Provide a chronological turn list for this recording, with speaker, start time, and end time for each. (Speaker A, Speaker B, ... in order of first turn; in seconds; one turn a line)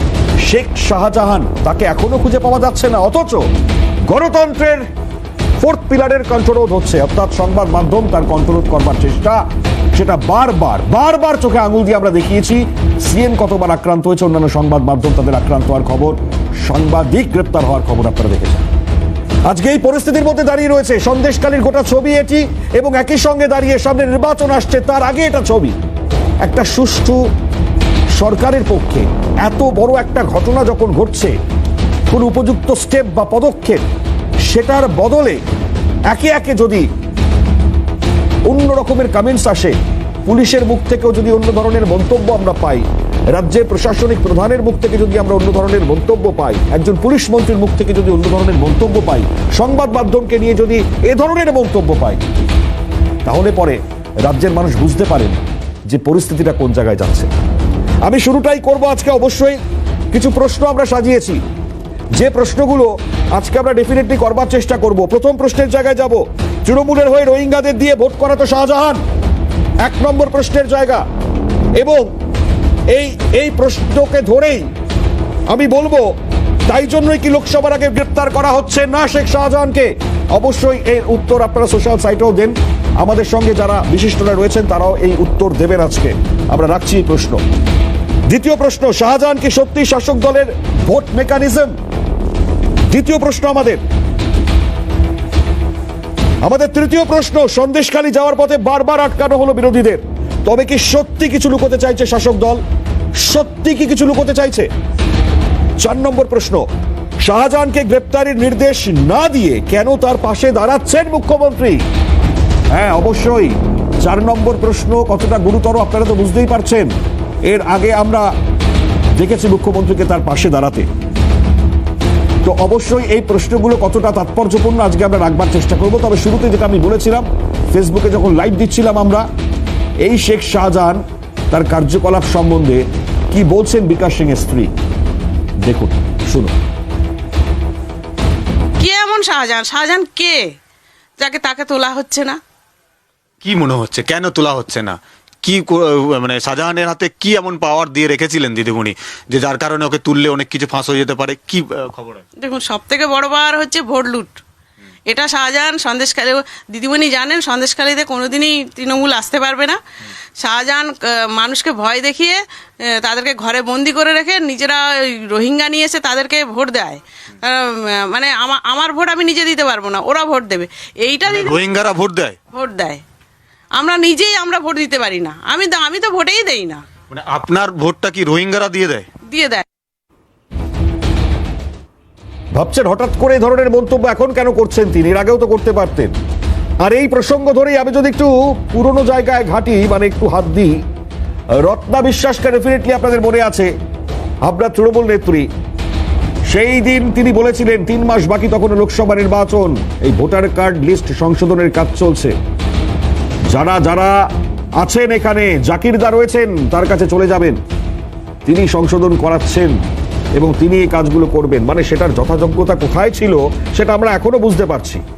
Speaker A: 0.5-3.5
Speaker A: 4.1-4.9
Speaker A: 5.6-9.4
Speaker A: 9.9-18.7
Speaker A: 19.4-25.8
Speaker A: 26.4-27.2
Speaker A: 28.2-31.3
Speaker A: 32.1-33.8
Speaker A: 34.5-35.4
Speaker A: 36.1-36.9
Speaker A: 38.5-52.2
Speaker A: 53.2-57.3
Speaker A: 58.0-59.6
Speaker A: 60.1-61.4
Speaker A: 62.2-69.0
Speaker A: 69.8-71.0
Speaker A: 71.8-72.1
Speaker A: 72.9-74.7
Speaker A: 75.5-76.1
Speaker A: 76.7-87.4
Speaker A: 88.3-91.7
Speaker A: 92.9-93.8
Speaker A: 96.4-102.6
Speaker A: 103.2-104.7
Speaker A: 105.8-106.6
Speaker A: 107.2-111.8
Speaker A: 112.7-116.9
Speaker A: 117.4-118.3
Speaker A: 119.1-120.9
Speaker A: 122.4-129.2
Speaker A: 130.0-131.0
Speaker A: 131.5-134.7
Speaker A: 135.6-136.6
Speaker B: 138.8-140.4
Speaker B: 141.2-142.4
Speaker C: 143.4-152.2
Speaker B: 152.4-154.4
Speaker B: 155.1-159.8
Speaker B: 160.4-162.4
Speaker B: 163.1-171.7
Speaker C: 171.2-172.4
Speaker B: 172.5-173.0
Speaker B: 173.8-176.8
Speaker C: 177.1-179.1
Speaker B: 179.3-179.6
Speaker A: 182.6-186.1
Speaker A: 186.8-190.8
Speaker A: 191.6-193.7
Speaker A: 194.4-195.5
Speaker A: 196.5-202.4
Speaker A: 203.5-207.6
Speaker A: 208.4-209.8
Speaker A: 210.4-215.0